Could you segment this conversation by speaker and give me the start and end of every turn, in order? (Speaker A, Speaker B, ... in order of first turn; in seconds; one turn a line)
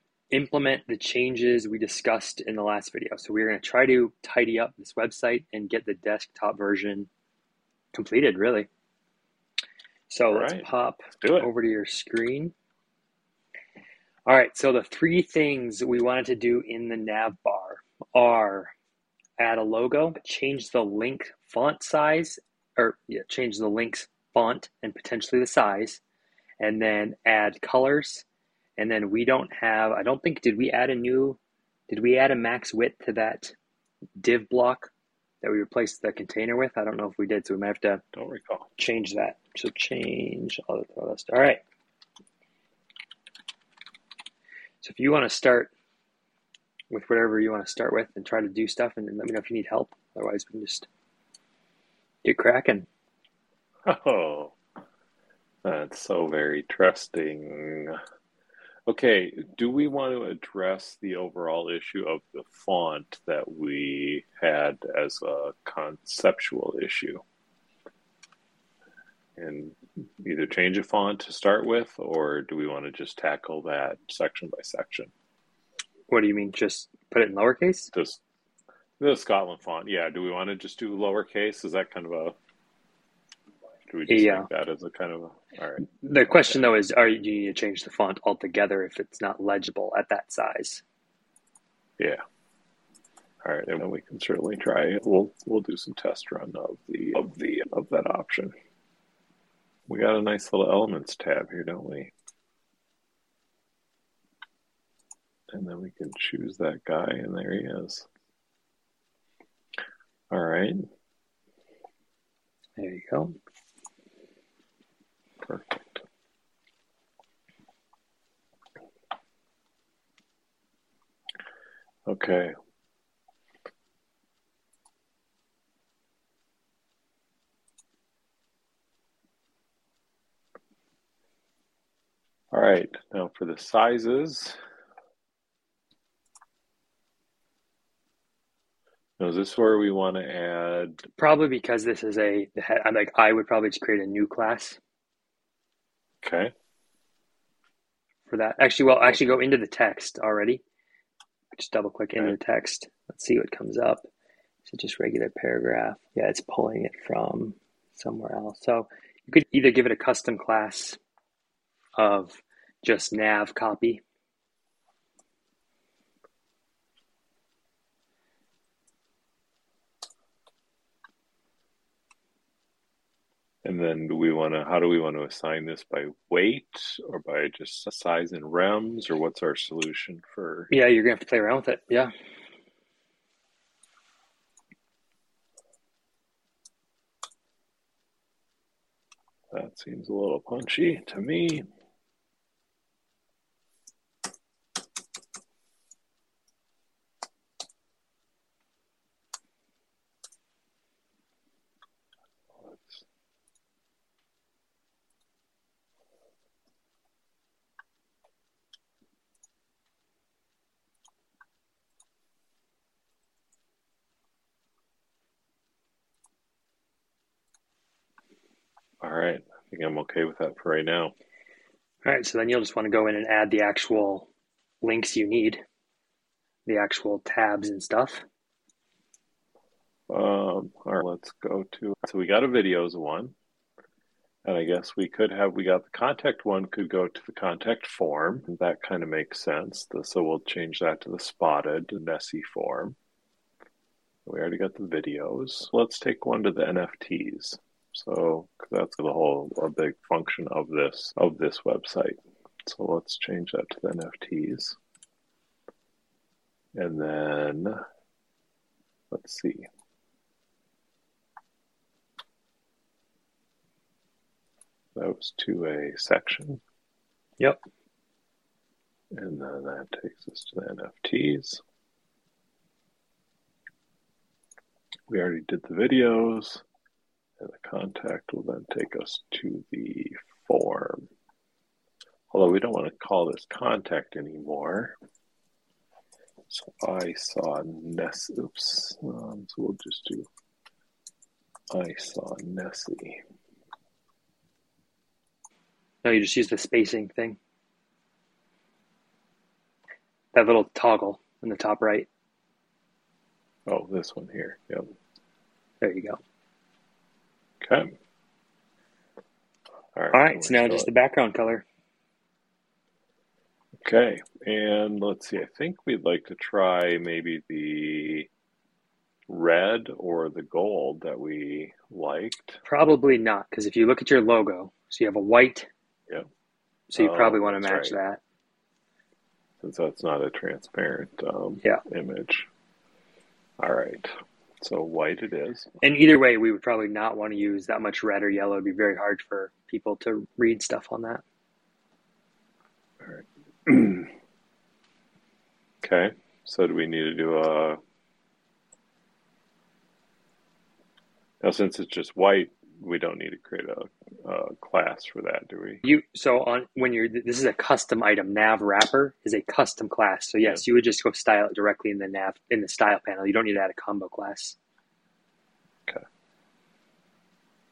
Speaker A: 0.3-7.1
Speaker A: 7.9-8.7
Speaker A: 10.1-12.5
Speaker B: 10.3-10.7
Speaker B: 11.2-11.5
Speaker A: 14.2-18.7
Speaker A: 19.4-26.0
Speaker A: 26.6-28.2
Speaker A: 28.8-31.4
Speaker A: 31.9-33.5
Speaker A: 34.2-34.9
Speaker A: 35.4-38.0
Speaker B: 38.1-38.7
Speaker A: 38.8-41.6
Speaker A: 44.8-45.7
Speaker A: 46.9-50.9
Speaker A: 52.2-52.9
Speaker B: 53.8-54.5
Speaker B: 55.6-58.0
Speaker B: 58.9-67.2
Speaker B: 69.4-75.1
Speaker A: 76.1-77.9
Speaker B: 77.9-78.2
Speaker B: 79.0-82.4
Speaker B: 83.9-86.7
Speaker A: 84.1-84.5
Speaker A: 85.8-90.8
Speaker B: 93.4-98.5
Speaker B: 99.9-102.1
Speaker B: 105.5-108.1
Speaker B: 110.3-110.8
Speaker A: 112.8-113.3
Speaker B: 115.4-116.0
Speaker B: 122.0-122.5
Speaker B: 132.5-134.6
Speaker B: 139.2-141.1
Speaker A: 141.2-144.8
Speaker B: 146.2-146.5
Speaker A: 148.3-150.6
Speaker B: 149.0-149.4
Speaker A: 151.6-154.1
Speaker A: 154.6-161.0
Speaker A: 162.0-164.0
Speaker B: 173.6-180.7
Speaker A: 180.7-182.1
Speaker B: 189.5-191.7
Speaker B: 202.5-203.0
Speaker B: 219.0-221.1
Speaker A: 222.0-224.3
Speaker A: 224.8-225.6
Speaker A: 226.7-228.2
Speaker B: 230.1-233.3
Speaker B: 234.4-242.9
Speaker B: 244.2-254.8
Speaker B: 256.7-257.8
Speaker B: 259.1-259.7
Speaker B: 264.9-266.6
Speaker B: 269.1-271.6
Speaker B: 275.1-276.6
Speaker B: 277.4-281.1
Speaker B: 282.3-284.9
Speaker B: 286.5-290.3
Speaker B: 291.7-293.2
Speaker A: 296.0-297.4
Speaker A: 300.3-302.1
Speaker B: 303.6-304.9
Speaker A: 305.8-306.2
Speaker B: 307.6-307.9
Speaker B: 309.9-310.9
Speaker A: 310.1-311.6
Speaker B: 313.8-318.3
Speaker B: 319.3-322.6
Speaker A: 322.6-325.7
Speaker A: 326.9-328.2
Speaker B: 326.9-328.0
Speaker B: 329.6-332.5
Speaker B: 333.6-335.7
Speaker A: 335.8-341.2
Speaker B: 343.0-344.1
Speaker B: 345.8-347.8
Speaker B: 351.4-355.8
Speaker A: 355.8-364.6